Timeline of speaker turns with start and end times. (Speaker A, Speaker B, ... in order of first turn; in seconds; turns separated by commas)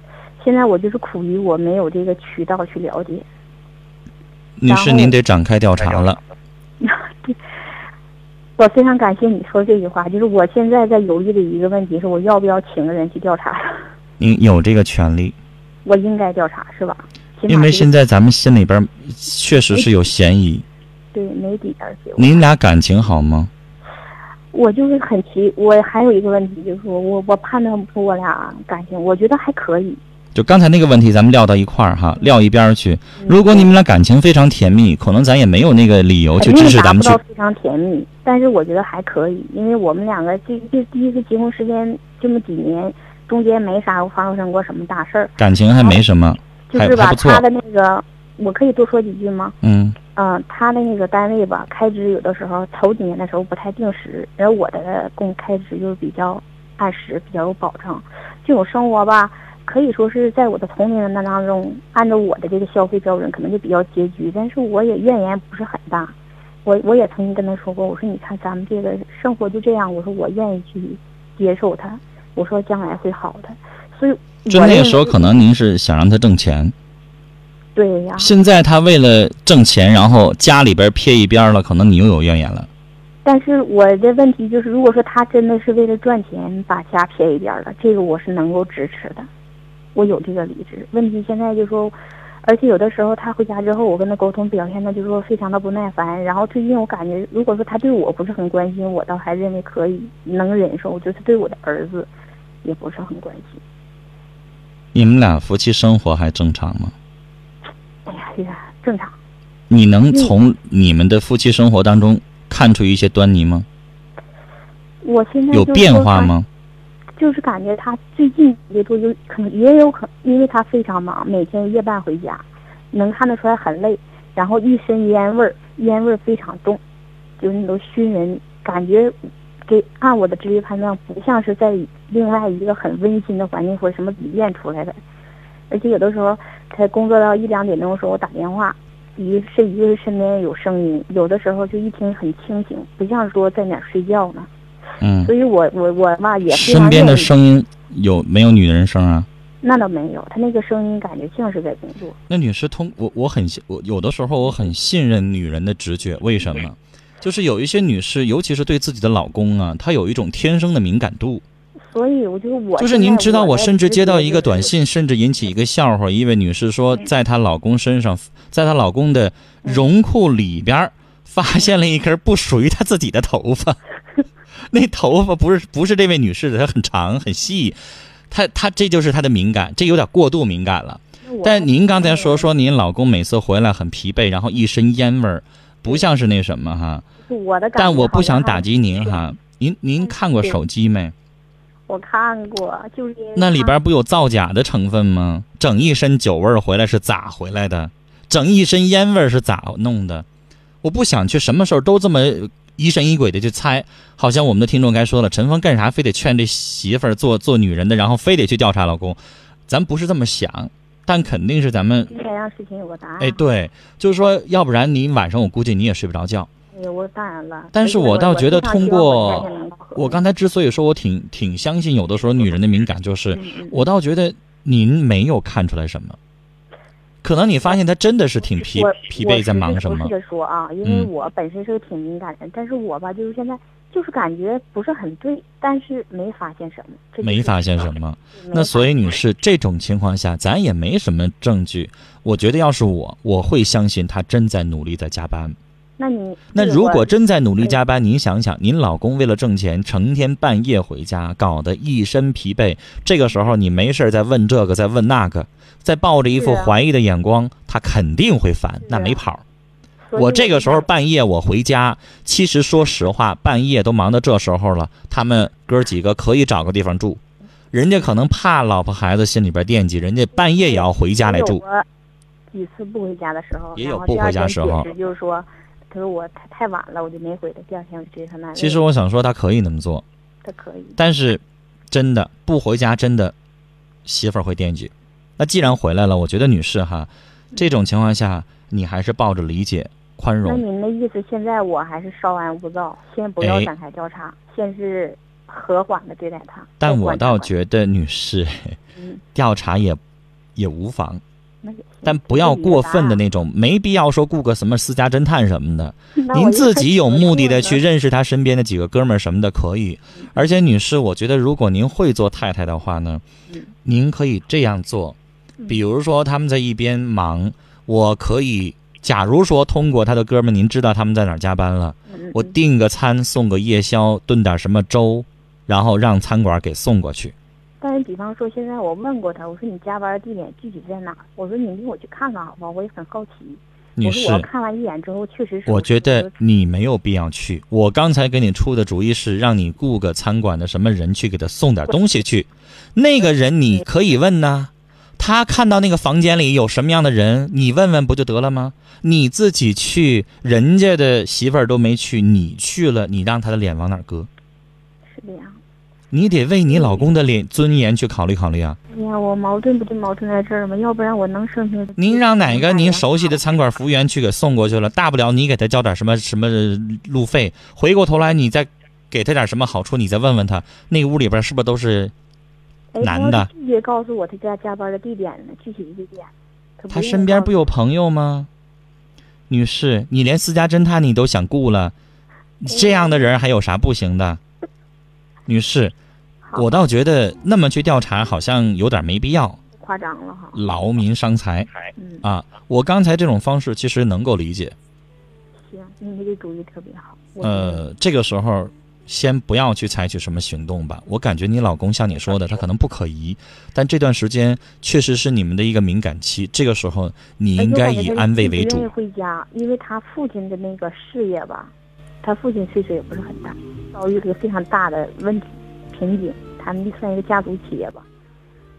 Speaker A: 0.4-3.3, Speaker B: 4.6-6.2, Speaker A: 4.7-5.2, Speaker A: 6.8-7.4, Speaker A: 8.6-13.8, Speaker B: 14.2-15.4, Speaker A: 15.8-17.9, Speaker B: 17.5-20.6, Speaker A: 21.1-22.4, Speaker B: 22.2-23.5, Speaker A: 24.5-30.0, Speaker B: 30.3-37.2, Speaker A: 33.2-33.7, Speaker A: 36.4-46.0, Speaker B: 45.4-47.4, Speaker A: 46.7-49.6, Speaker B: 49.6-50.0, Speaker A: 50.1-75.3, Speaker B: 74.5-76.7, Speaker A: 77.8-78.3, Speaker B: 78.2-82.7, Speaker A: 83.2-89.3, Speaker A: 90.0-102.1, Speaker A: 102.6-103.6, Speaker B: 104.9-106.9, Speaker A: 108.1-109.2, Speaker B: 109.7-113.7, Speaker A: 115.0-116.3, Speaker B: 115.5-116.5, Speaker A: 117.2-126.8, Speaker A: 127.4-135.0, Speaker A: 135.7-144.5, Speaker B: 145.0-145.3, Speaker A: 145.2-147.3, Speaker B: 146.5-149.3, Speaker A: 149.6-152.2, Speaker B: 152.3-161.4, Speaker A: 161.9-164.7, Speaker B: 162.8-173.8, Speaker B: 174.6-177.8, Speaker B: 178.3-187.1, Speaker A: 181.2-182.5, Speaker A: 187.2-189.2, Speaker B: 187.8-191.2, Speaker A: 191.9-193.8, Speaker B: 193.4-200.3, Speaker B: 200.8-212.1, Speaker A: 212.1-213.4, Speaker B: 213.2-216.5, Speaker A: 216.7-220.2, Speaker B: 217.7-226.2, Speaker A: 223.4-223.8, Speaker B: 227.2-230.1, Speaker A: 228.6-238.9, Speaker B: 230.8-231.1, Speaker B: 237.2-245.6, Speaker A: 246.0-247.8, Speaker B: 246.5-259.4, Speaker A: 256.4-256.8, Speaker A: 258.9-259.2, Speaker A: 260.1-260.9, Speaker B: 260.2-267.2, Speaker B: 267.7-271.6, Speaker A: 270.4-271.9, Speaker A: 272.5-278.8, Speaker B: 273.8-274.9, Speaker B: 278.6-280.1, Speaker A: 280.4-281.0, Speaker B: 281.0-283.3, Speaker B: 284.1-290.6, Speaker A: 290.4-297.5, Speaker B: 293.4-293.7, Speaker B: 296.8-298.8, Speaker A: 299.0-299.2, Speaker B: 299.4-300.0, Speaker B: 300.6-301.2, Speaker A: 301.6-303.2, Speaker B: 302.0-313.2, Speaker A: 306.2-307.8, Speaker B: 313.9-315.2, Speaker B: 315.7-327.3, Speaker A: 322.1-322.6, Speaker A: 327.8-336.4, Speaker B: 334.0-334.5, Speaker B: 335.7-354.3, Speaker A: 355.1-355.6, Speaker B: 356.1-358.8, Speaker A: 356.7-357.1, Speaker A: 358.9-363.4, Speaker B: 362.0-372.1, Speaker A: 372.9-377.7, Speaker B: 373.0-373.5, Speaker B: 376.9-378.5, Speaker B: 379.5-381.9, Speaker B: 382.6-384.4, Speaker A: 382.7-383.3, Speaker B: 385.5-385.9, Speaker A: 386.4-386.7, Speaker B: 386.6-389.6, Speaker A: 389.8-390.6, Speaker B: 390.5-391.7, Speaker A: 392.0-392.2, Speaker B: 392.2-394.8, Speaker A: 395.6-397.8, Speaker B: 397.4-408.9, Speaker A: 407.6-418.1